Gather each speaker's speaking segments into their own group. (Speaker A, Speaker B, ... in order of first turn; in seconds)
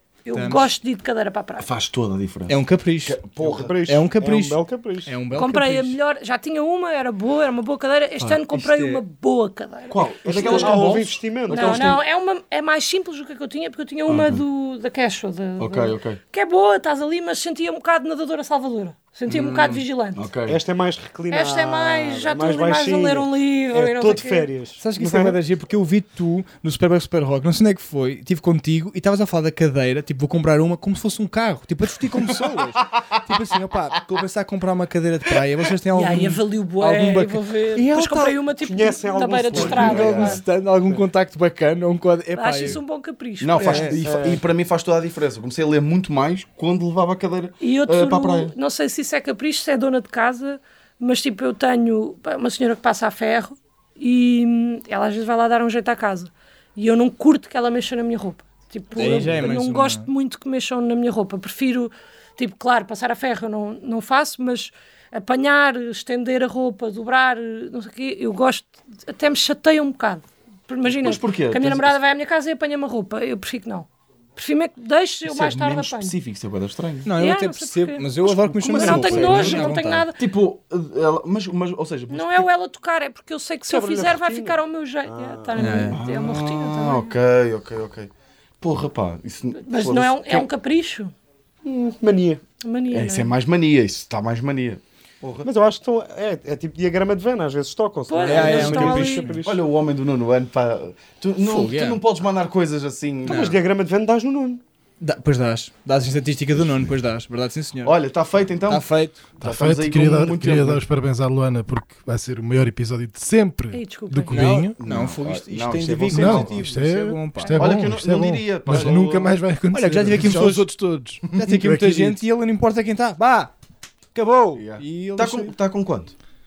Speaker A: 0.2-1.7, 5.3-10.9, 11.5-20.3, 21.3-24.5, 35.9-40.4, 42.3-43.9, 47.6-76.2, 77.1-80.2, 82.1-87.1, 89.5-91.1, 92.6-93.3, 98.1-99.3, 113.7-114.5
Speaker B: 0.3-0.7, 2.5-3.2, 3.9-6.0, 8.2-9.0, 24.8-38.4, 39.5-42.8, 43.6-44.0, 59.0-60.1, 77.0-80.0, 85.5-86.0, 98.2-99.4, 101.4-102.0, 103.2-103.6, 105.0-107.9, 108.7-109.3, 114.3-117.8, 118.7-119.0, 119.7-120.7, 121.3-123.5, 124.1-125.5
Speaker C: 1.6-3.8, 9.9-12.0, 14.1-14.4, 15.6-16.2, 19.3-20.6, 32.2-33.2, 39.5-40.3, 43.4-48.5, 59.0-59.5, 70.8-72.0, 75.2-77.1, 78.6-82.5, 85.9-90.5, 92.9-95.5, 98.4-98.8, 99.4-103.5, 107.8-108.8, 109.4-110.8, 114.8-116.8, 117.5-119.4, 121.3-121.6, 124.5-126.1
Speaker D: 3.4-5.1, 10.2-12.0, 20.4-25.4, 38.6-41.0, 43.6-44.4, 83.7-85.8, 91.6-92.4, 95.4-99.6, 103.2-104.6
Speaker E: 109.4-114.8, 115.9-122.1